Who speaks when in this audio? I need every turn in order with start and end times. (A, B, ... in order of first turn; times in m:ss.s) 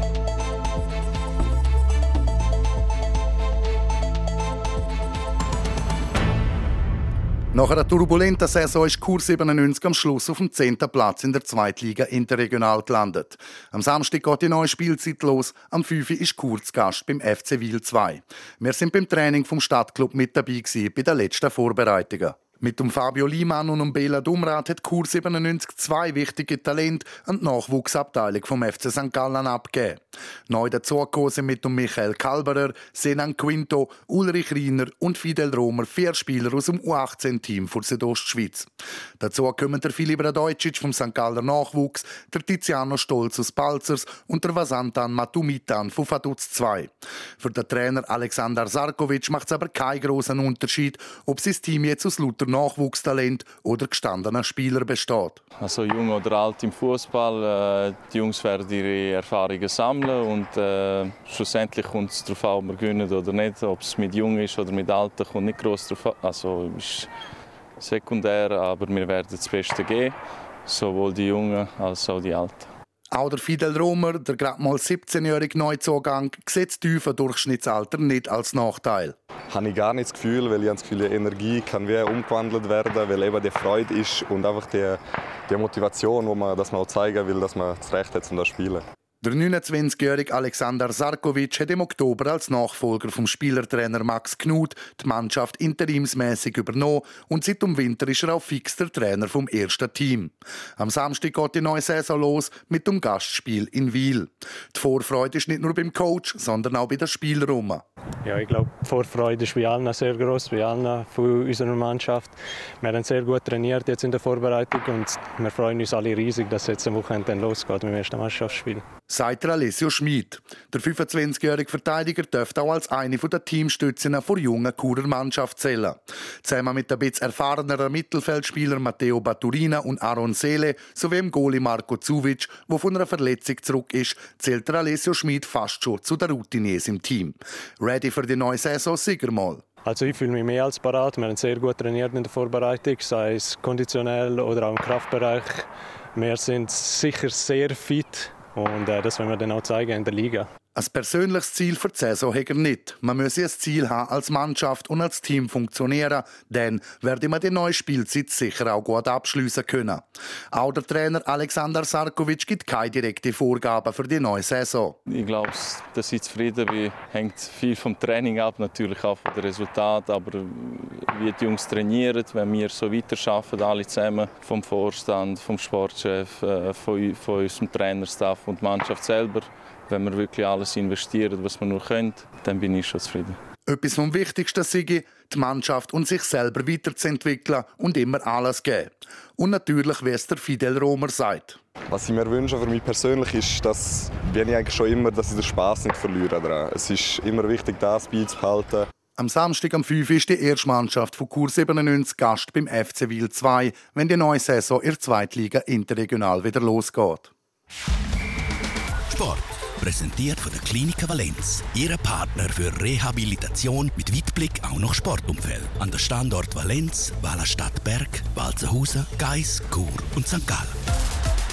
0:07.5-0:38.7 A
0:39.2-0:55.4 A
0:55.6-1:07.1 B
1:07.8-1:12.7 B
1:13.1-1:19.2 A
1:19.5-1:28.8 C
1:29.2-1:47.8 A
1:48.2-1:58.8 D
1:59.1-2:19.6 A
2:19.8-2:30.5 D
2:30.8-2:45.0 A
2:45.1-3:03.4 B
3:03.7-3:11.6 A
3:11.9-3:18.9 C
3:19.2-3:27.3 A
3:29.1-3:40.8 E